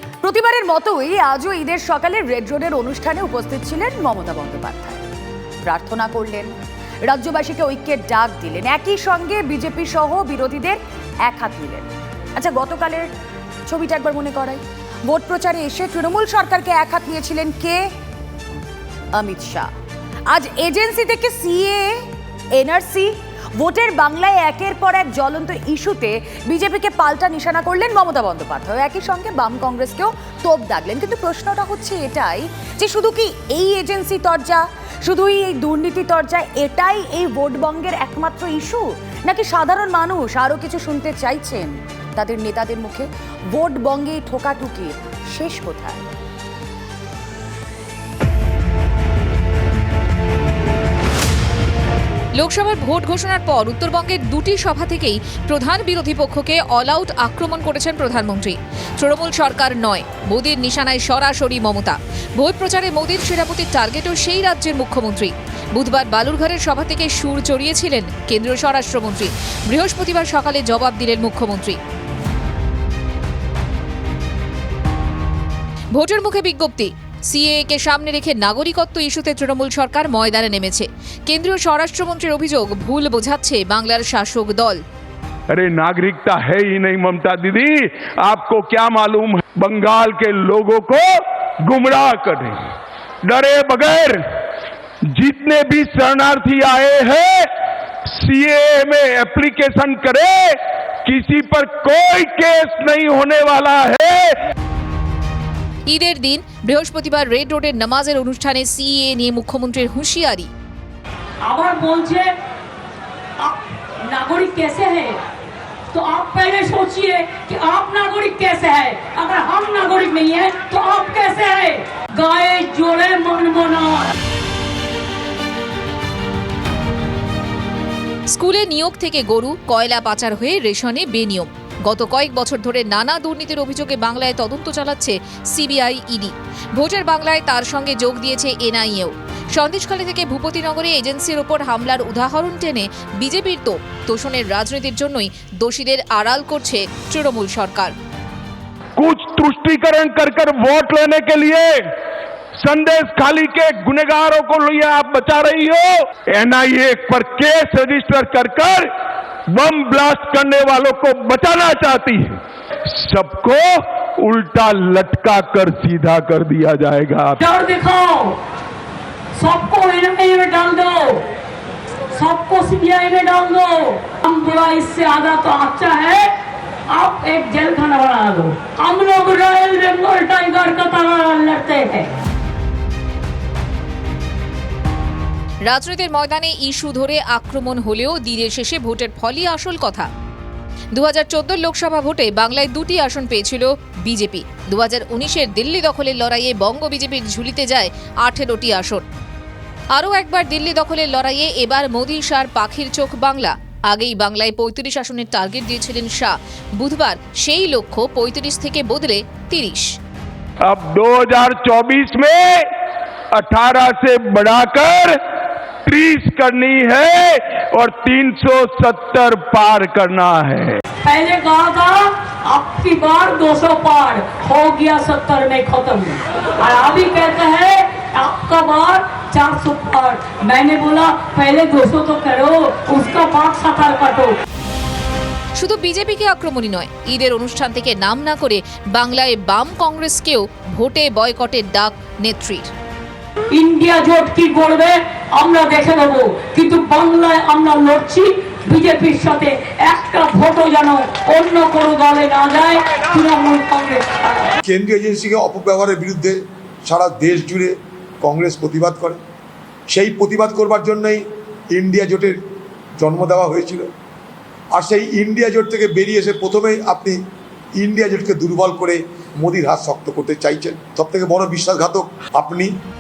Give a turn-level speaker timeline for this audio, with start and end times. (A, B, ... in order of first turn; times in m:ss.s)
0:00.2-0:05.0 A
0:05.6-0:06.5 A
0:07.0-0:13.1 A
0:13.7-0:17.8 A
0:19.2-0:19.7 A
0:20.3-0:21.9 A
0:22.6-0:46.0 A
0:52.4-1:11.8 B
1:15.9-1:24.8 B
1:25.5-1:32.6 C
1:33.3-1:34.2 C
1:35.1-1:37.5 C
1:38.2-1:44.4 C
1:45.9-1:50.5 B
1:51.5-1:52.3 D
1:53.4-1:55.1 D
1:55.9-2:04.0 D
2:08.3-2:27.9 B
2:29.0-2:31.8 C
2:32.6-2:38.9 C
2:39.5-2:47.4 C
2:47.4-2:48.4 D
2:49.4-2:51.2 D
2:52.2-2:56.3 D
2:56.9-3:02.1 D
3:05.6-3:10.1 B
3:10.9-3:19.0 B
3:19.9-3:30.0 B
3:30.6-3:32.7 C
3:33.3-3:35.2 C
3:35.9-3:40.8 C
3:41.0-3:54.3 D
3:55.6-4:02.7 B
4:03.5-4:14.5 D
4:14.7-4:19.2 E
4:19.9-4:22.4 E
4:23.0-4:23.8 E
4:24.8-4:27.2 E
4:27.8-4:32.7 E